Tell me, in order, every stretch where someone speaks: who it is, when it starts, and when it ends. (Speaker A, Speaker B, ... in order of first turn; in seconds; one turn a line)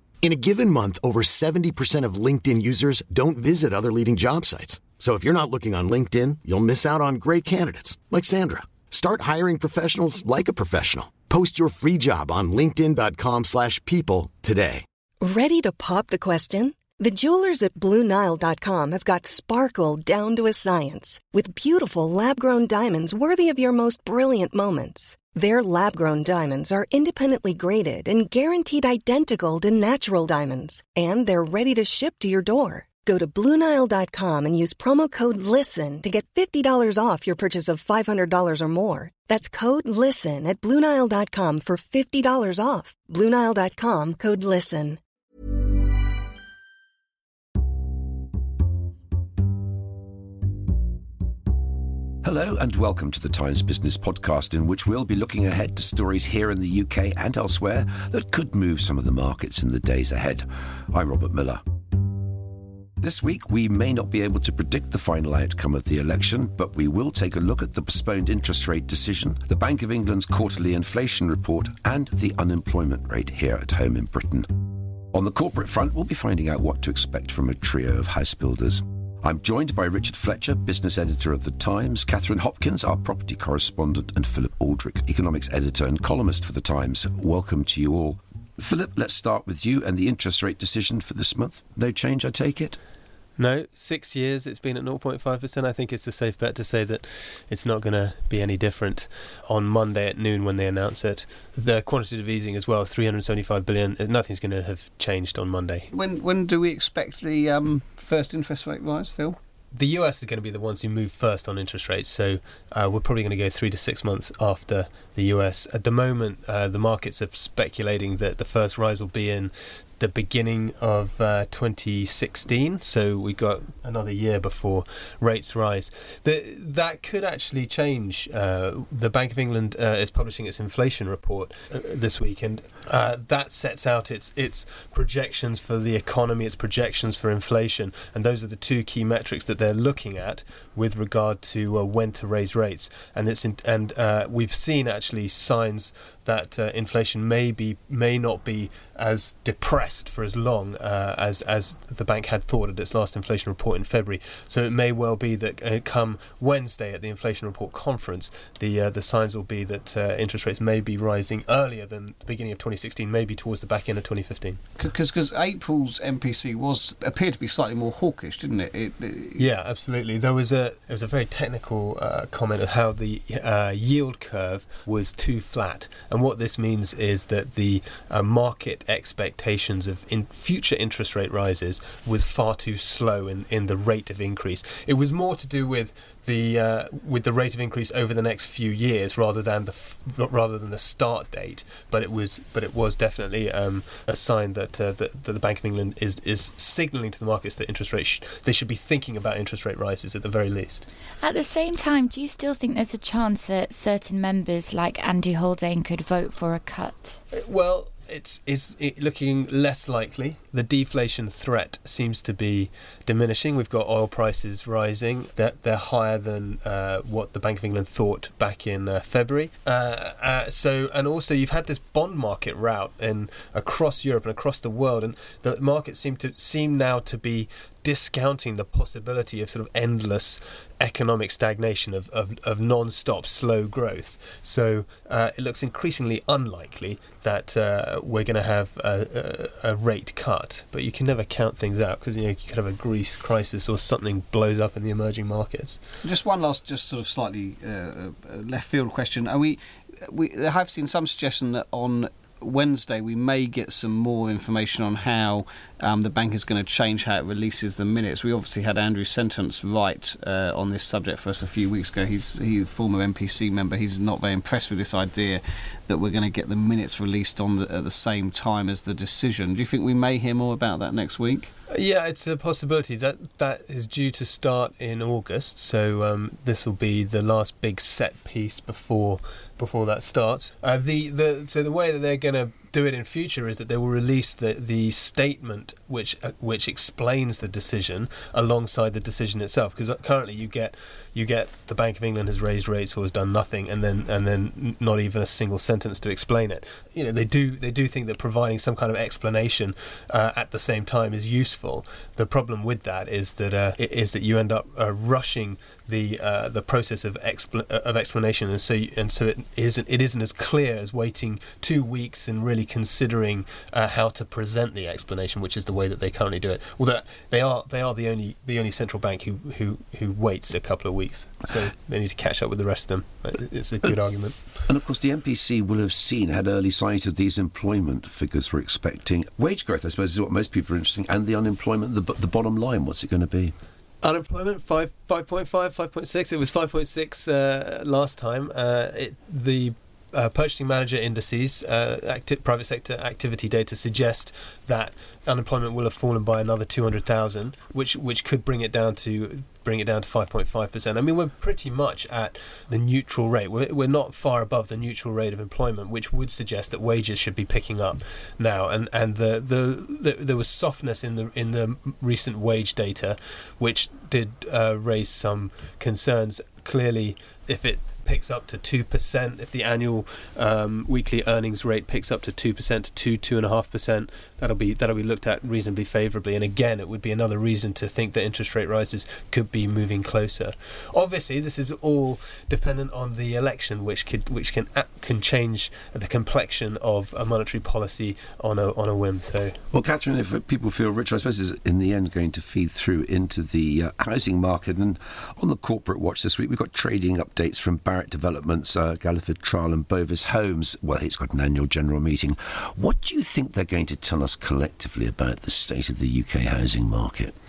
Speaker A: 0.2-14.8
Speaker B: 15.2-45.0
Speaker C: 52.2-61.6
Speaker C: 63.0-74.5
Speaker C: 75.1-92.8
Speaker D: 93.4-105.9
Speaker E: 105.9-109.4
Speaker D: 109.7-164.6
Speaker E: 164.8-169.5
Speaker D: 169.4-200.8
Speaker F: 201.2-207.2
Speaker D: 207.4-245.8
Speaker E: 246.0-271.5
Speaker D: 271.7-324.4
Speaker C: 324.7-333.6
Speaker D: 334.0-389.6
Speaker C: 389.7-407.3